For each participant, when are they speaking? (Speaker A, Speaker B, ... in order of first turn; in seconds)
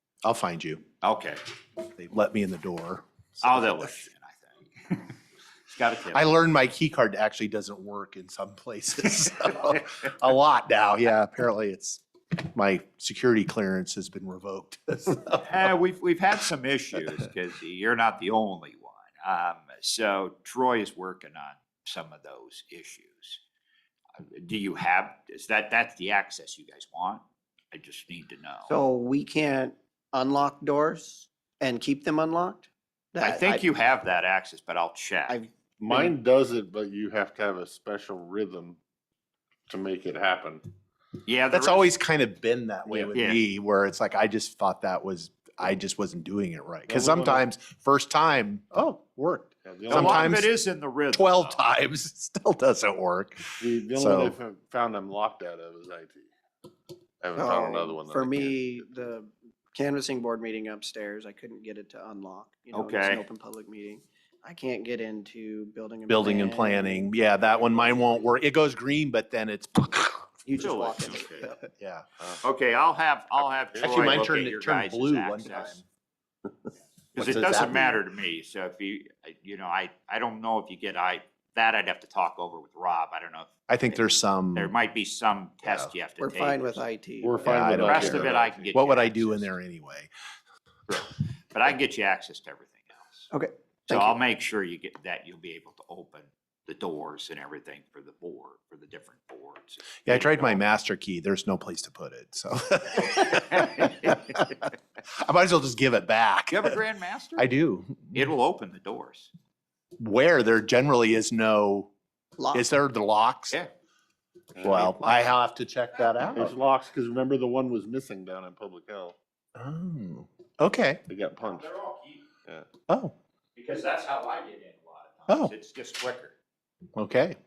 Speaker A: 0.2-0.8, 1.9-4.1, 6.1-15.7, 41.5-50.5, 51.1-54.4, 66.1-70.5, 71.8-72.0, 73.8-75.8, 77.2-78.0, 83.7-84.7, 85.6-85.9, 87.4-90.1, 100.0-106.8, 107.3-108.3, 110.0-111.9, 112.5-113.6, 114.6-116.5, 119.5-121.0, 122.9-123.1, 125.3-125.5, 126.9-127.4
Speaker B: 1.0-1.4, 3.4-5.1, 5.7-6.3, 15.4-23.4, 24.2-28.7, 33.2-35.4, 41.2-41.9, 43.1-43.4, 49.9-51.7, 62.7-63.2, 70.5-71.5, 72.4-75.8, 77.1-83.5, 84.5-86.8, 87.5-89.5, 90.9-93.3, 93.9-100.6, 103.6-103.9, 106.5-107.5, 108.1-109.3, 114.7-115.2, 121.4-122.2, 123.5-126.3
Speaker C: 28.7-33.6, 35.3-36.1, 57.3-68.2, 70.5-71.6, 86.2-87.7, 93.3-94.2, 112.4-112.6
Speaker D: 35.8-38.8, 39.7-40.6, 46.9-47.5, 49.6-50.4, 53.6-56.3, 57.2-58.9, 73.7-74.3, 87.2-88.8, 114.5-115.1, 116.3-119.2, 121.1-121.7